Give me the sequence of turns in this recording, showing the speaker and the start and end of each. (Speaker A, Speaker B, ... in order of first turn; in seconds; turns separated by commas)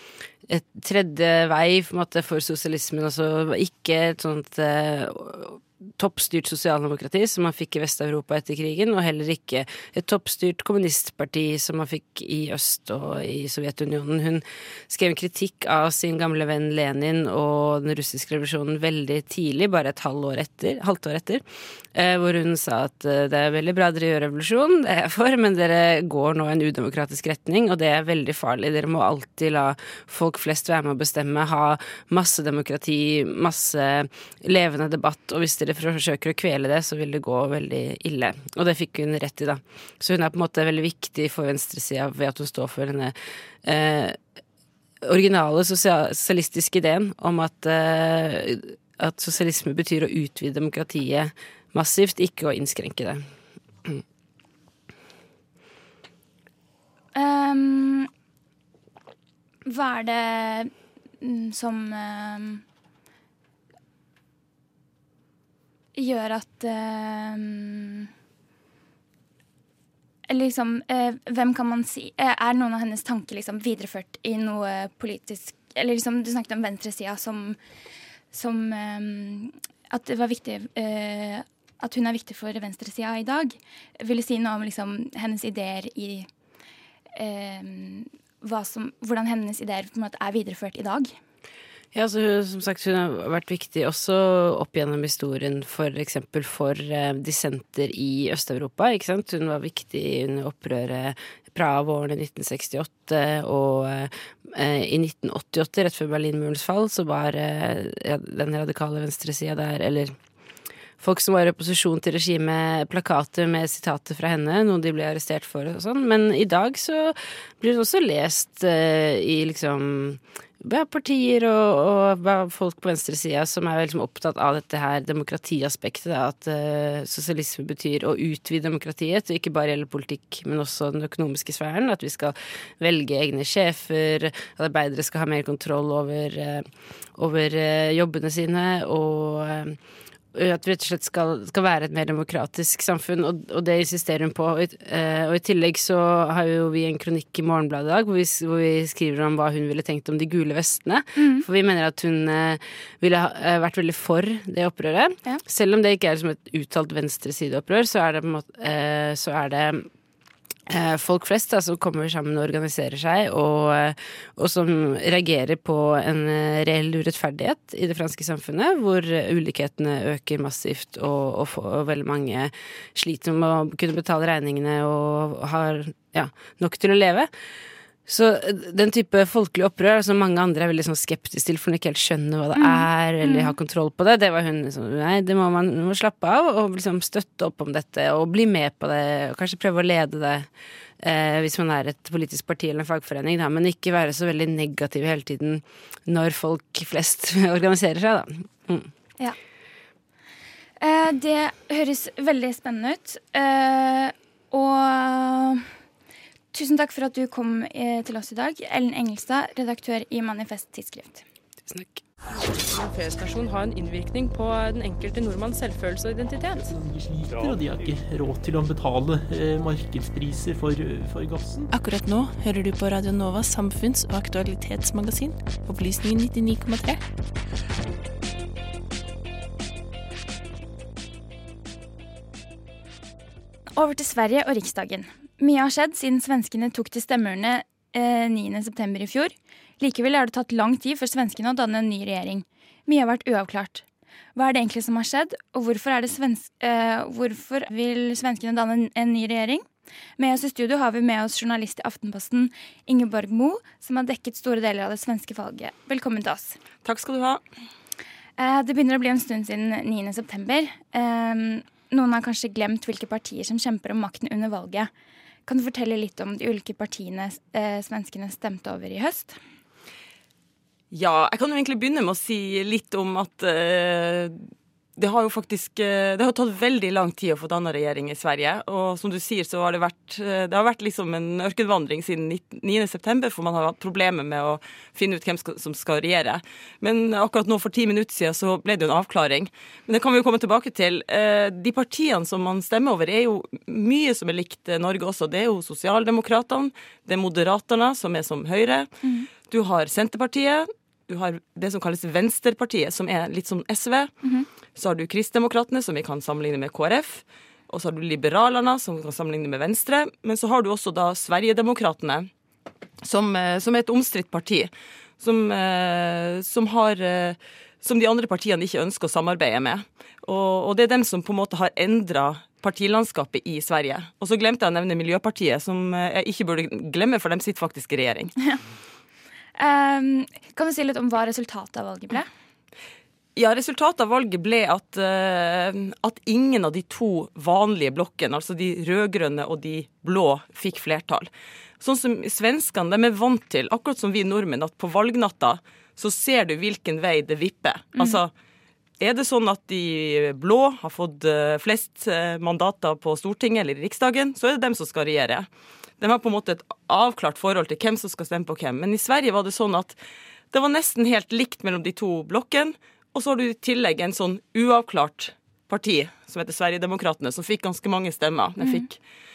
Speaker A: 0.5-21.4, Speaker A: 21.9-44.2, Speaker A: 45.0-53.2, Speaker B: 57.1-58.1, Speaker B: 59.7-62.6, Speaker B: 65.9-68.1, Speaker B: 70.3-77.6, Speaker B: 78.3-86.3, Speaker B: 87.1-91.2, Speaker A: 91.9-110.2, Speaker A: 111.0-139.8, Speaker A: 140.3-159.9, Speaker B: 151.2-151.4, Speaker A: 160.7-177.3, Speaker A: 178.1-190.5, Speaker B: 182.6-183.5, Speaker A: 191.0-198.9, Speaker B: 200.8-205.7, Speaker B: 206.5-211.2, Speaker A: 211.7-212.0, Speaker C: 212.3-216.7, Speaker D: 216.7-221.7, Speaker E: 221.7-227.0, Speaker B: 233.8-243.8, Speaker B: 244.3-249.7, Speaker B: 250.2-256.6, Speaker F: 256.8-257.4, Speaker B: 258.4-264.9, Speaker B: 265.4-269.4, Speaker F: 270.9-274.4, Speaker F: 275.0-298.9, Speaker B: 299.0-299.3, Speaker F: 299.4-304.1, Speaker F: 304.8-312.3, Speaker F: 313.0-328.3, Speaker B: 329.6-332.3, Speaker F: 333.4-348.3, Speaker F: 349.0-355.5, Speaker F: 356.0-360.0, Speaker F: 360.5-369.0, Speaker B: 368.6-368.9